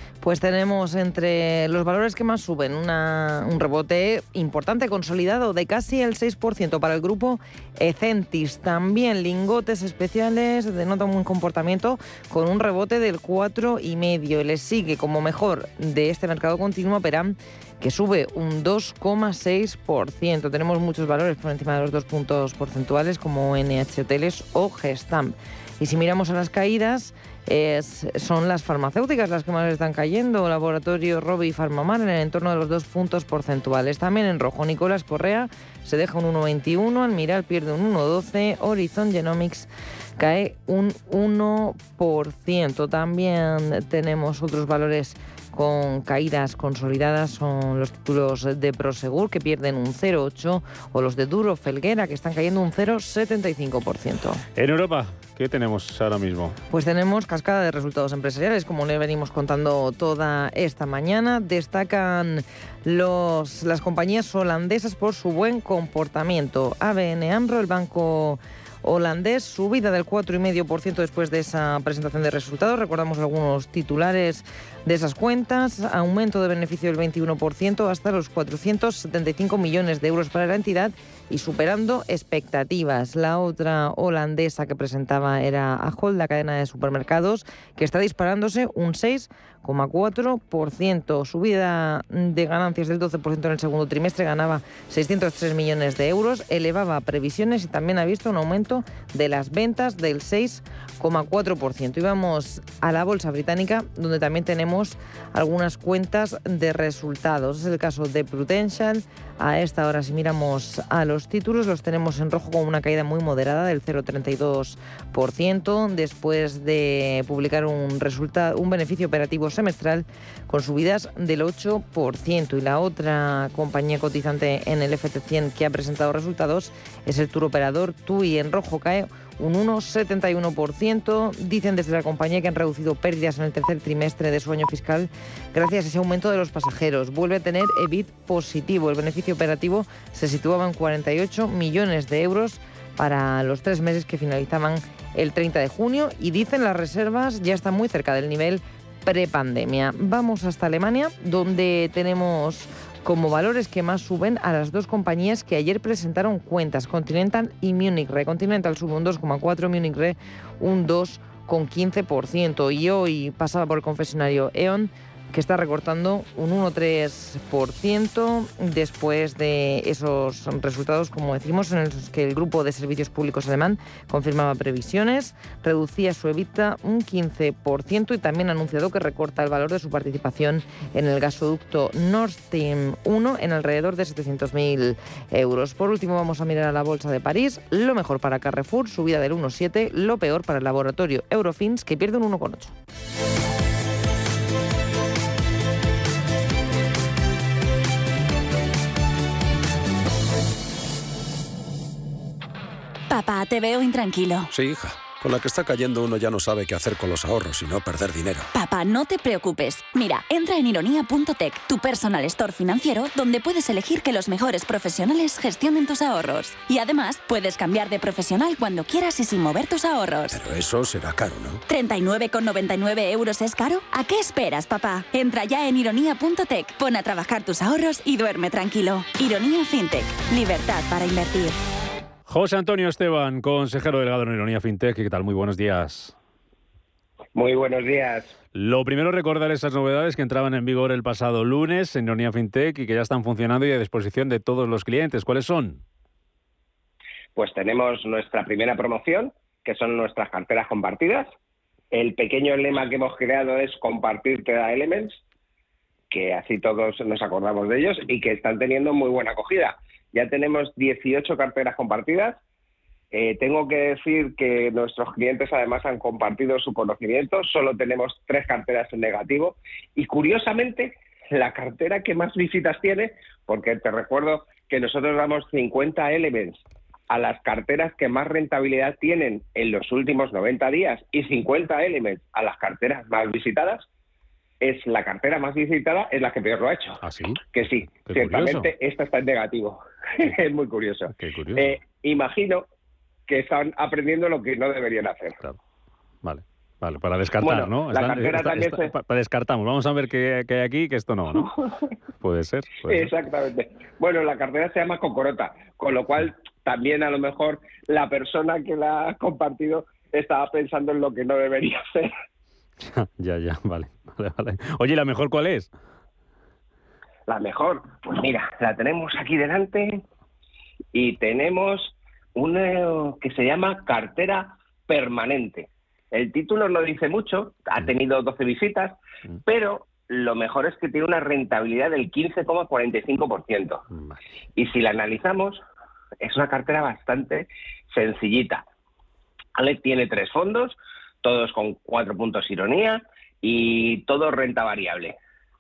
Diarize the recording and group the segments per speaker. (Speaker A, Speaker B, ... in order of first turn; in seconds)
Speaker A: 0.2-54.4, 56.7-192.7
Speaker B: 54.6-56.6, 232.3-236.2, 238.5-245.8, 287.0-288.7, 291.1-291.8, 296.2-301.5, 302.2-303.1, 312.8-315.7, 333.9-334.2
Speaker C: 203.1-204.5, 208.5-220.4, 221.7-231.6
Speaker D: 204.5-208.5, 220.3-221.6
Speaker E: 237.3-238.3, 247.4-251.3, 251.9-255.2, 256.1-262.4, 263.1-283.9, 284.6-292.6, 293.3-295.4, 297.4-298.9, 301.3-301.7, 302.9-312.1, 317.3-320.0, 320.9-333.8, 334.6-335.6, 336.2-338.6, 339.6-345.2